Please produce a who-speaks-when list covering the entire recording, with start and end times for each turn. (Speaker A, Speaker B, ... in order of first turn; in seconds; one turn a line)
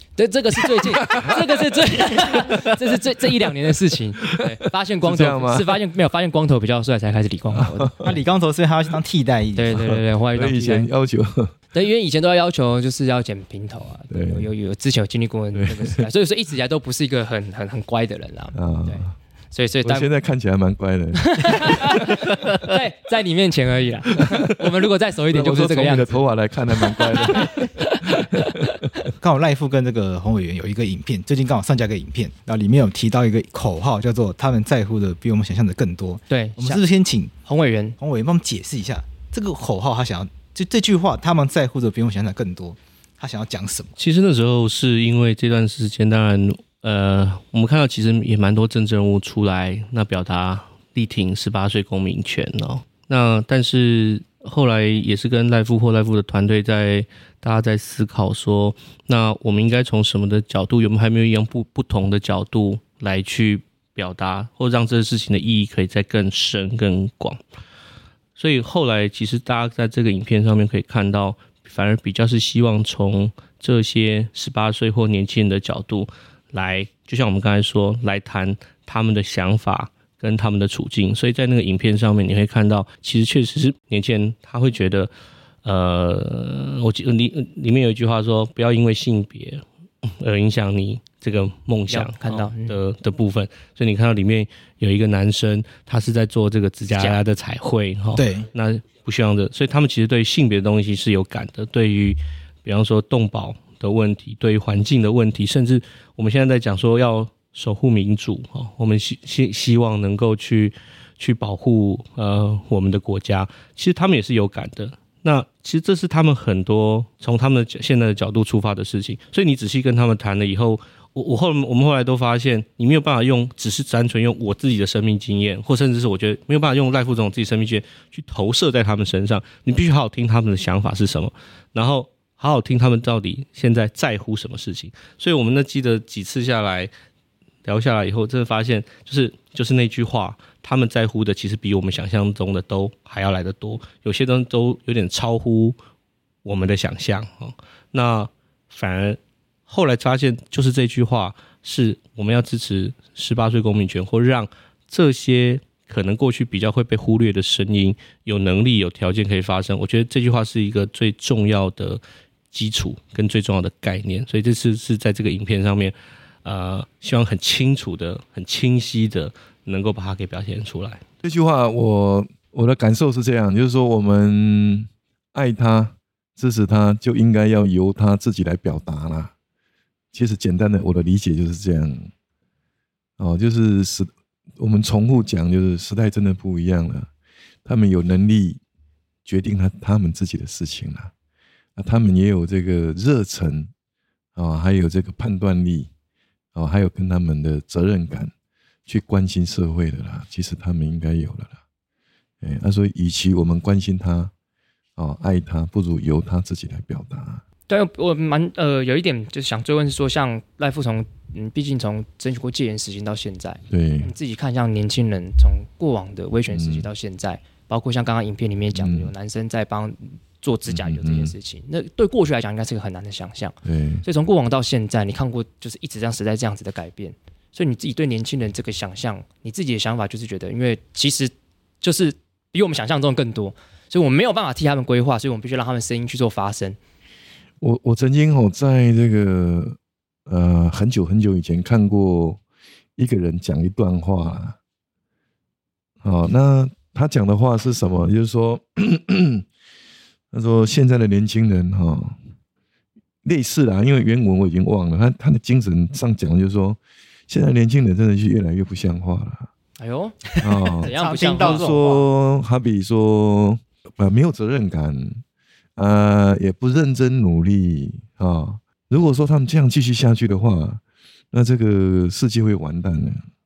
Speaker A: 0.2-7.9
Speaker B: 0.7-1.4
Speaker B: 2.1-2.6
Speaker B: 5.0-5.8
Speaker B: 7.5-8.2
Speaker C: 8.0-9.8
Speaker A: 9.6-10.9
Speaker B: 9.7-11.5
Speaker A: 11.7-20.1
Speaker B: 14.1-14.5
Speaker B: 15.5-16.1
Speaker B: 18.5-19.1
Speaker B: 19.8-22.6
Speaker A: 21.2-26.2
Speaker B: 25.3-28.9
Speaker A: 26.8-28.7
Speaker C: 29.2-37.3
Speaker A: 36.3-36.8
Speaker A: 37.4-38.0
Speaker C: 38.0-43.9
Speaker D: 44.0-67.4
Speaker D: 68.3-85.1
Speaker D: 85.6-136.9
Speaker A: 91.9-92.8
Speaker A: 96.9-97.2
Speaker C: 98.2-98.5
Speaker D: 137.6-145.8
Speaker D: 146.4-162.0
Speaker D: 162.5-171.0
Speaker B: 171.2-179.3
Speaker B: 180.1-182.1
Speaker B: 183.2-187.1
Speaker B: 187.6-188.6
Speaker B: 189.2-191.1
Speaker B: 191.8-193.7
Speaker B: 194.3-195.9
Speaker B: 196.5-198.3
Speaker B: 198.9-201.6
Speaker B: 202.4-204.3
Speaker B: 205.0-207.4
Speaker A: 207.7-236.8
Speaker B: 213.7-214.1
Speaker B: 216.5-216.9
Speaker B: 218.7-219.1
Speaker B: 220.7-221.3
Speaker B: 223.6-224.1
Speaker B: 237.6-242.4
Speaker B: 243.0-244.6
Speaker B: 246.0-249.5
Speaker B: 250.3-252.2
Speaker B: 253.2-259.5
Speaker A: 259.8-261.6
Speaker B: 260.4-265.2
Speaker C: 260.8-262.0
Speaker B: 265.8-273.2